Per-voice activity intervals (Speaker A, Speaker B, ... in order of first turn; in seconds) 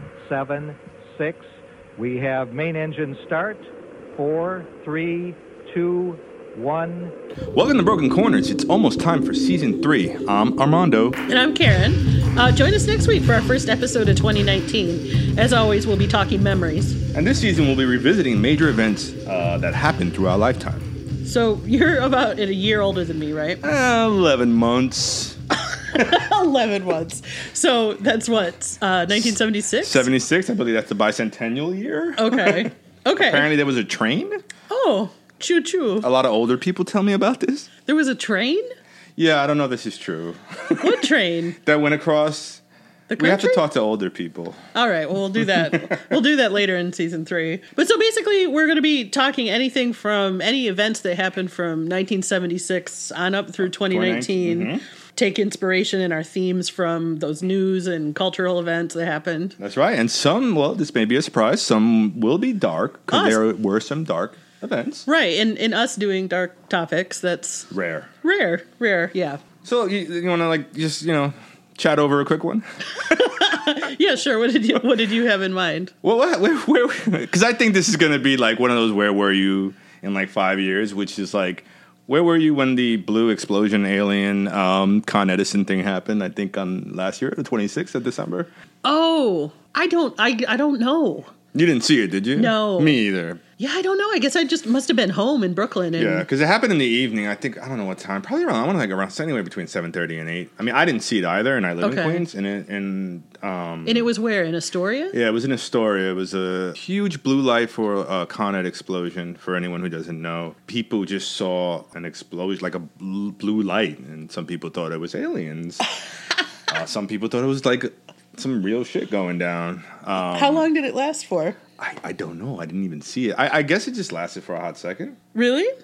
Speaker A: 0.2-1.5, 2.0-3.6, 4.2-7.1
Speaker B: 7.5-11.2, 17.1-20.9, 23.6-25.4, 29.1-34.4, 36.0-37.7, 39.2-42.6, 43.2-44.6, 45.7-46.1, 53.6-54.8, 59.6-65.1, 67.7-68.1, 69.6-73.1, 76.0-88.5, 91.5-93.4, 96.0-104.1, 105.1-115.9, 116.7-120.7, 121.8-125.2
Speaker C: 11.3-17.0, 21.2-23.6, 25.9-30.1, 32.2-33.5, 34.7-36.1, 37.9-38.7, 40.8-41.6, 43.1-43.6, 44.7-59.6, 63.1-63.4, 65.1-69.4, 73.1-75.9, 88.8-91.3, 92.3-93.0, 93.6-96.3, 101.8-102.2, 103.9-105.2, 120.2-121.6, 125.3-125.7